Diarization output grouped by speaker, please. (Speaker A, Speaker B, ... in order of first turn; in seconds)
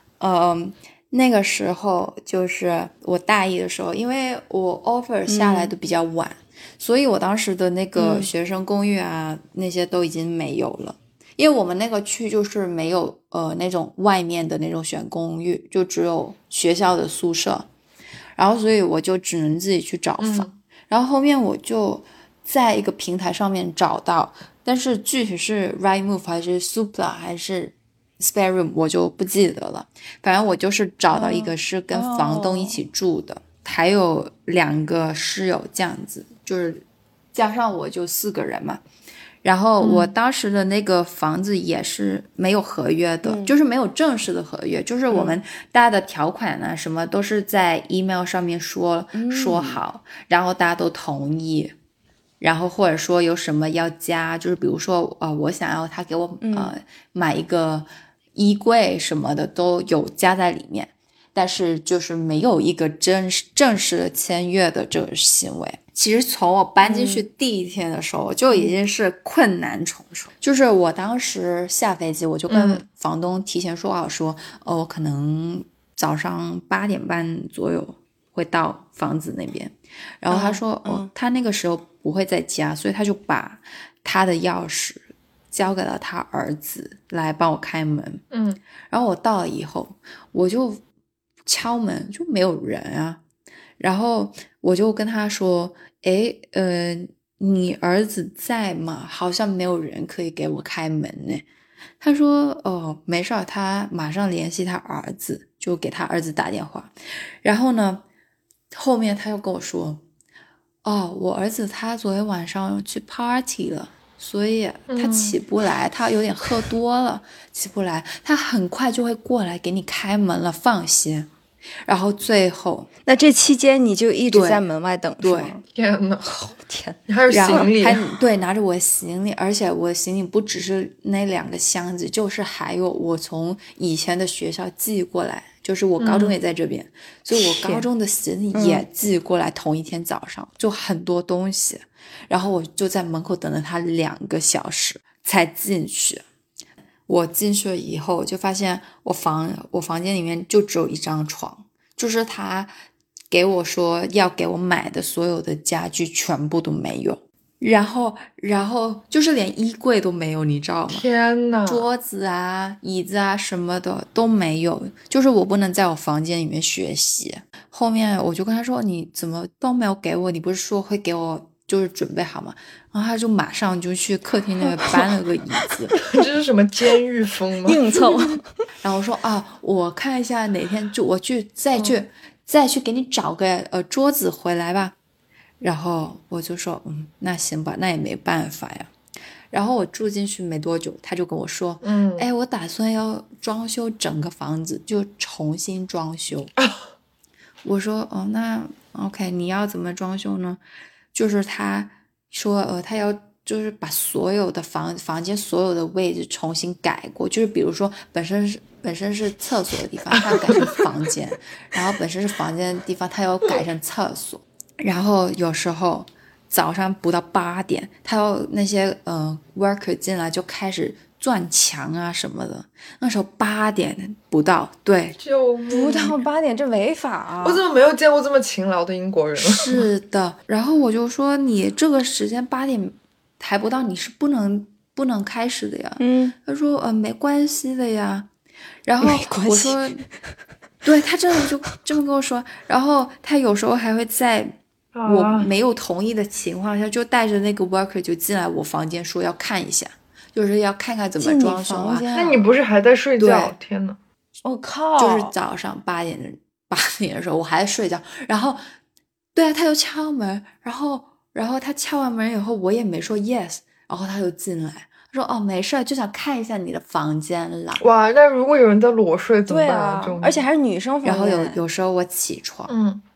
Speaker A: 0.2-17.7, 18.4-38.8, 39.4-51.7, 52.4-88.2, 88.9-90.8, 91.5-93.2, 93.8-101.4, 102.0-108.0, 108.7-110.0, 110.8-121.3, 121.8-122.9, 124.3-124.6, 125.2-125.6, 127.3-146.2, 147.1-152.7, 153.3-161.1, 161.7-176.0, 178.8-184.9, 185.6-188.9, 189.5-196.5, 197.6-200.6, 201.1-225.2, 229.4-238.3, 238.8-240.1, 240.8-252.1, 253.2-253.5, 255.0-258.6, 259.4-267.8, 271.1-272.7
Speaker B: 5.3-5.7, 8.0-8.3, 31.1-32.8, 43.2-43.5, 45.1-45.4, 49.1-49.8, 56.4-56.7, 66.8-67.2, 68.5-68.8, 80.3-81.1, 123.1-125.6, 126.2-127.7, 137.3-137.9, 138.5-138.8, 174.6-175.0, 177.7-178.5, 225.7-227.6, 236.0-236.3, 239.0-239.9, 251.2-252.5, 254.4-255.3, 269.5-271.6
Speaker C: 20.2-20.6, 72.5-72.8, 88.3-88.6, 114.9-115.4, 125.8-126.3, 127.1-128.0, 136.0-136.4, 160.9-161.9, 176.1-178.0, 191.8-192.3, 225.2-226.2, 227.4-229.9, 244.9-245.5, 252.1-254.0, 267.8-270.5, 272.7-273.0